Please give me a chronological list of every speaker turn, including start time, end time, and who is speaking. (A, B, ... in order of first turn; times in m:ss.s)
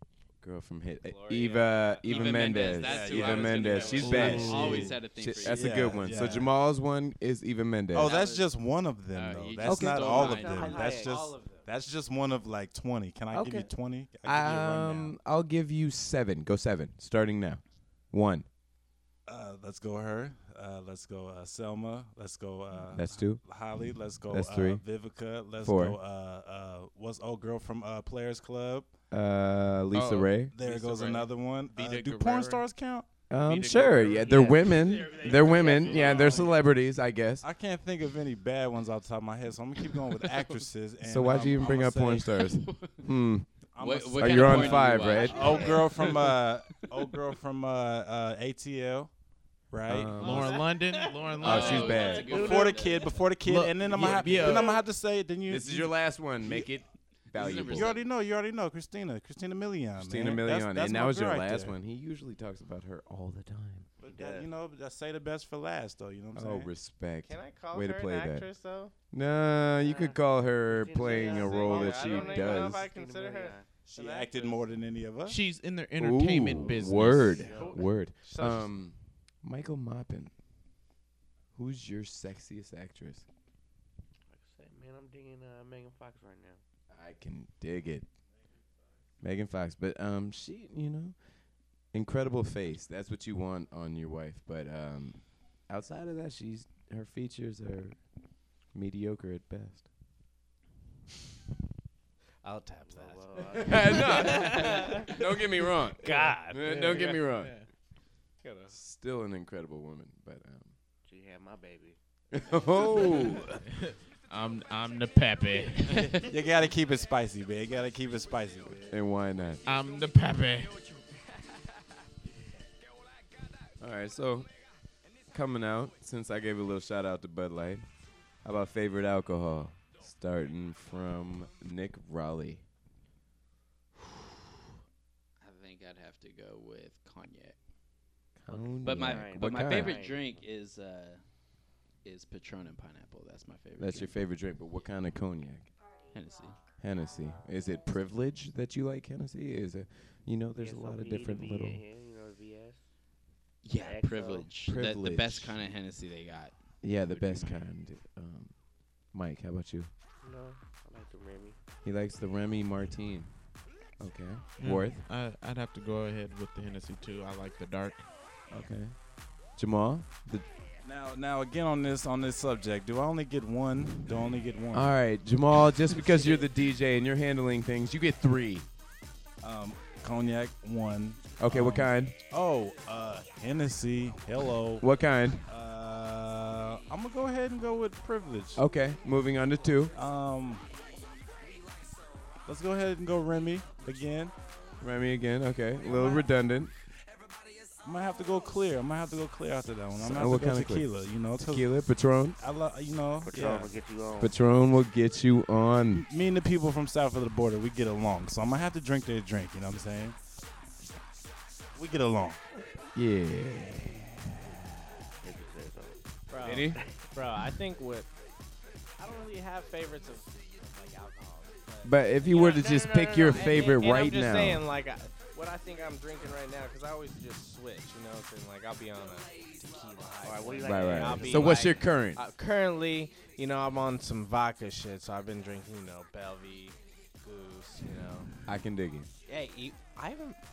0:00.4-0:08.2 A
0:01.0-0:02.8 B
0:02.0-0:06.3 C
0:02.7-0:06.5 D
0:03.3-0:04.1 B
0:04.0-0:04.9 E
0:07.9-0:15.2 D
0:08.0-0:08.5 C
0:09.1-0:11.0 C
0:09.6-0:10.3 A
0:10.2-0:11.2 F
0:11.0-0:11.7 B
0:13.3-0:13.7 A
0:14.2-0:18.5 A
0:19.3-0:28.9 D
0:22.9-0:23.4 A
0:24.3-0:24.8 A
0:25.6-0:26.0 A
0:29.1-0:30.6 A
0:29.9-0:32.6 E
0:30.5-0:33.1 D
0:33.3-0:37.5 A
0:33.4-0:34.6 E
0:33.7-0:34.4 D
0:34.8-0:36.5 B
0:35.5-0:36.5 D
0:37.4-0:42.2 D
0:40.3-0:40.6 C
0:41.0-0:43.5 A
0:41.6-0:43.0 C
0:43.7-0:49.1 D
0:43.8-0:46.4 C
0:44.2-0:45.8 A
0:49.7-0:50.2 D
0:49.9-0:50.6 A
0:50.2-0:52.7 E
0:50.5-0:52.1 B
0:51.4-0:53.2 C
0:51.4-0:52.3 A
0:52.2-0:56.7 D
0:53.4-0:54.8 E
0:54.0-0:54.5 A
0:55.5-0:58.0 A
0:57.3-0:58.0 C
0:57.7-1:01.8 D
1:00.0-1:03.9 A
1:04.0-1:06.7 D
1:04.1-1:04.5 F
1:06.3-1:08.5 A
1:07.2-1:08.9 B
1:09.1-1:12.9 A
1:09.8-1:13.7 F
1:11.0-1:14.7 B
1:13.9-1:15.4 D
1:15.3-1:17.5 E
1:16.0-1:20.3 A
1:17.4-1:17.8 F
1:17.4-1:18.7 B
1:21.6-1:23.3 A
1:24.3-1:26.6 F
1:26.9-1:28.1 A
1:29.2-1:31.2 A
1:31.9-1:38.0 A
1:38.6-1:39.9 A
1:42.4-1:43.4 B
1:42.9-1:44.6 F
1:43.4-1:47.6 A
1:44.0-1:45.1 B
1:46.0-1:47.2 B
1:46.7-1:47.7 E
1:48.4-1:48.7 B
1:48.7-1:50.7 A
1:51.0-1:52.0 F
1:52.3-1:53.6 A
1:53.8-1:56.3 E
1:56.2-1:58.9 D
1:58.9-1:59.6 A
1:59.6-2:00.7 E
2:03.8-2:04.5 A
2:05.3-2:07.9 A
2:08.4-2:12.6 A
2:15.4-2:17.6 C
2:18.4-2:20.0 A
2:18.6-2:20.2 F
2:18.6-2:21.2 C
2:22.0-2:24.2 C
2:23.8-2:25.7 A
2:26.1-2:26.6 C
2:26.8-2:31.8 A
2:30.6-2:32.8 F
2:33.6-2:37.6 C
2:33.8-2:34.6 F
2:34.6-2:35.6 A
2:36.8-2:39.9 A
2:40.2-2:41.6 F
2:41.8-2:43.3 A
2:44.0-2:45.0 A
2:44.6-2:48.1 E
2:48.5-2:49.0 A
2:49.5-2:50.5 A
2:50.8-2:54.9 D
2:54.7-2:58.7 A
2:59.4-3:04.9 D
3:01.4-3:02.2 A
3:04.8-3:05.4 A
3:05.4-3:08.6 D
3:08.6-3:09.9 A
3:09.9-3:10.6 D
3:12.5-3:14.3 D
3:14.8-3:16.7 A
3:17.8-3:21.8 D
3:20.0-3:22.4 A
3:22.4-3:23.7 D
3:23.2-3:24.4 F
3:24.2-3:26.0 A
3:25.9-3:30.2 D
3:31.7-3:32.4 D
3:33.0-3:34.3 A
3:35.2-3:36.0 F
3:36.3-3:38.1 B
3:36.4-3:36.8 A
3:36.7-3:37.1 F
3:39.0-3:58.3 B
3:41.8-3:44.7 A
3:50.2-3:51.8 F
3:50.6-3:52.2 A
3:58.4-3:59.1 A
3:59.2-4:00.4 B